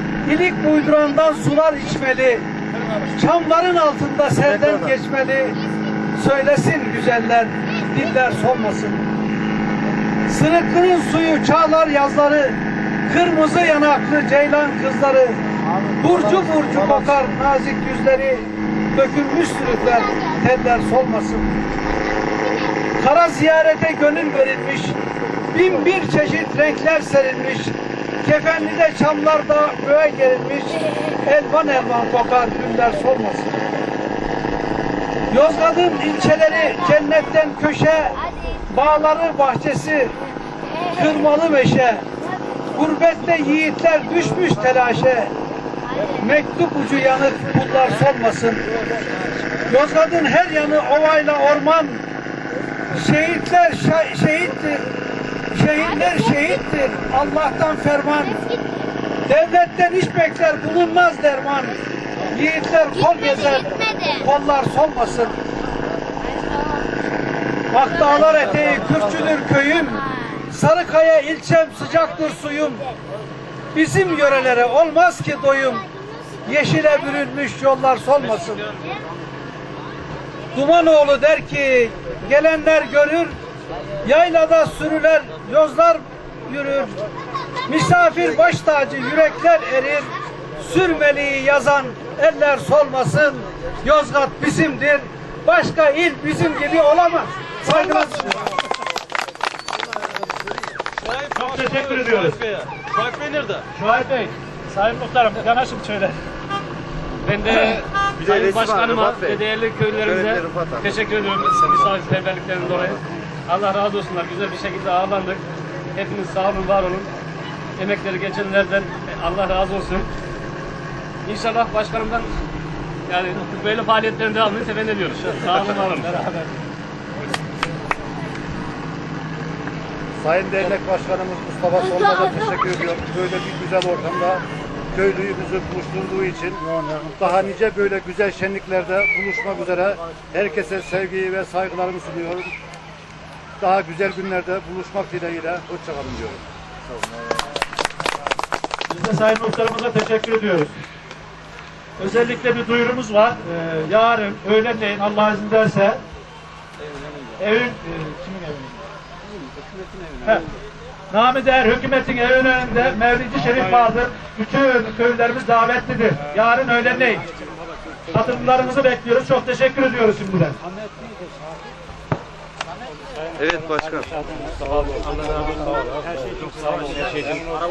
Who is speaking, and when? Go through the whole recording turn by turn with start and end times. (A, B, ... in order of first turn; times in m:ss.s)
0:00.3-0:02.5 A
0:03.1-0:05.6 A
0:06.2-0:09.1 A
0:10.3-0:15.4 A
0:16.0-0:21.6 A
0:23.0-0:25.0 A
0:25.5-0:33.6 A
0:35.3-0:40.2 A
0:40.9-0:42.0 A
0:42.7-0:45.3 A
0:46.2-0:48.6 A
0:49.7-0:52.0 A
0:52.9-0:54.9 A
0:55.5-0:58.4 A
0:59.3-1:01.8 A
1:02.3-1:05.4 A
1:07.7-1:12.8 A
1:13.7-1:15.8 A
1:16.5-1:18.7 A
1:20.5-1:23.4 A
1:24.0-1:27.0 A
1:27.7-1:38.4 A
1:41.0-1:43.6 B
1:41.4-1:42.4 C
1:43.8-1:46.2 C
1:47.2-1:55.4 D
1:56.0-1:57.1 D
1:57.8-2:00.1 D
2:01.3-2:02.3 D
2:03.1-2:06.5 D
2:10.2-2:22.5 E
2:23.6-2:26.4 E
2:28.9-2:30.7 C
2:32.0-2:36.0 C
2:37.4-2:38.7 C
2:41.1-2:47.2 C
2:48.1-2:50.6 C
2:53.5-2:53.9 B
2:56.6-2:57.4 B